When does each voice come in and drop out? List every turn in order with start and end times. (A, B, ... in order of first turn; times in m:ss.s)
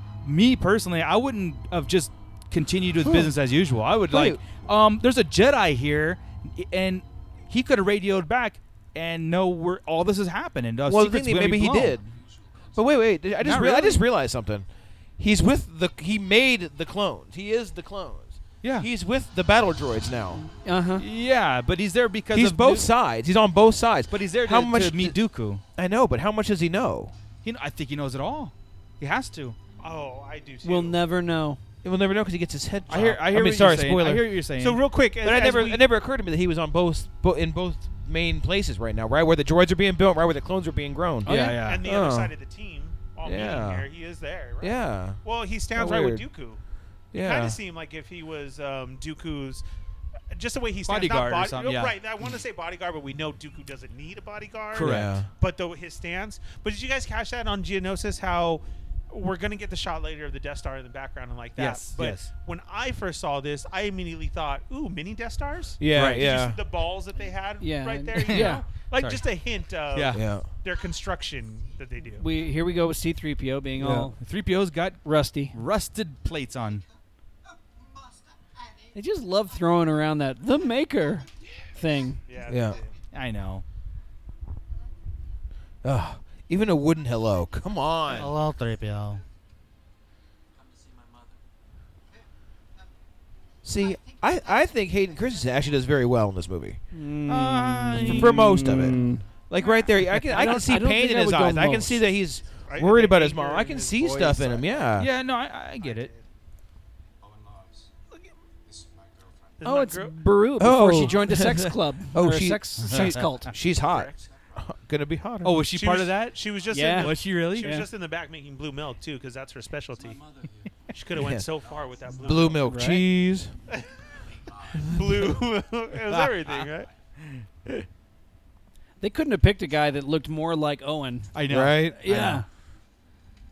0:00.2-0:12.0 A
0:03.0-0:03.3 B
0:04.1-0:04.4 B
0:10.8-0:12.1 B
0:12.0-0:13.2 C
0:12.7-0:20.4 B
0:13.4-0:14.0 A
0:18.6-0:18.9 A
0:20.6-0:21.0 D
0:21.0-0:22.9 A
0:22.3-0:25.2 B
0:24.1-0:25.6 A
0:25.8-0:27.1 B
0:27.4-0:29.6 A
0:29.8-0:31.0 E
0:30.6-0:31.6 D
0:31.8-0:34.4 B
0:32.9-0:34.8 A
0:34.6-0:35.8 E
0:35.2-0:42.4 B
0:41.2-0:41.6 D
0:41.3-0:41.8 A
0:41.6-0:46.6 E
0:43.2-0:43.9 B
0:44.6-0:45.2 B
0:45.7-0:46.3 B
0:47.1-0:47.6 B
0:47.2-0:49.6 E
0:50.3-1:12.3 E
0:50.9-0:52.0 A
0:54.7-0:55.1 A
0:54.8-0:55.3 B
1:01.6-1:02.3 A
1:05.8-1:06.6 B
1:05.9-1:06.4 A
1:07.6-1:08.6 D
1:08.2-1:09.3 A
1:09.9-1:10.2 A
1:10.1-1:10.5 B
1:12.2-1:14.2 D
1:13.8-1:14.1 B
1:14.2-1:16.8 A
1:15.0-1:15.6 D
1:18.9-1:22.2 D
1:22.3-1:23.0 E
1:22.5-1:22.8 B
1:23.1-1:23.6 A
1:25.8-1:28.4 B
1:28.1-1:29.2 A
1:30.6-1:31.4 C
1:33.6-1:36.8 B
1:36.9-1:39.3 D
1:37.3-1:39.0 A
1:38.0-1:45.1 B
1:40.1-1:42.1 D
1:42.7-1:45.0 E
1:45.0-1:46.1 A
1:47.2-1:47.9 C
1:48.6-1:49.7 C
1:49.6-1:50.2 E
1:49.6-1:53.5 D
1:50.6-1:55.6 B
1:51.0-1:51.4 C
1:52.8-1:53.2 A
1:53.6-1:54.7 C
1:55.4-1:56.4 A
1:55.7-2:00.2 E
1:56.7-1:57.9 D
1:56.9-1:57.8 A
1:59.9-2:02.6 C
2:00.9-2:02.6 E
2:01.1-2:01.5 B
2:02.2-2:03.5 B
2:02.6-2:03.1 D
2:04.3-2:05.5 C
2:04.8-2:06.9 E
2:06.1-2:06.7 A
2:07.2-2:07.8 A
2:09.0-2:12.4 D
2:11.3-2:12.4 A
2:11.5-2:12.0 B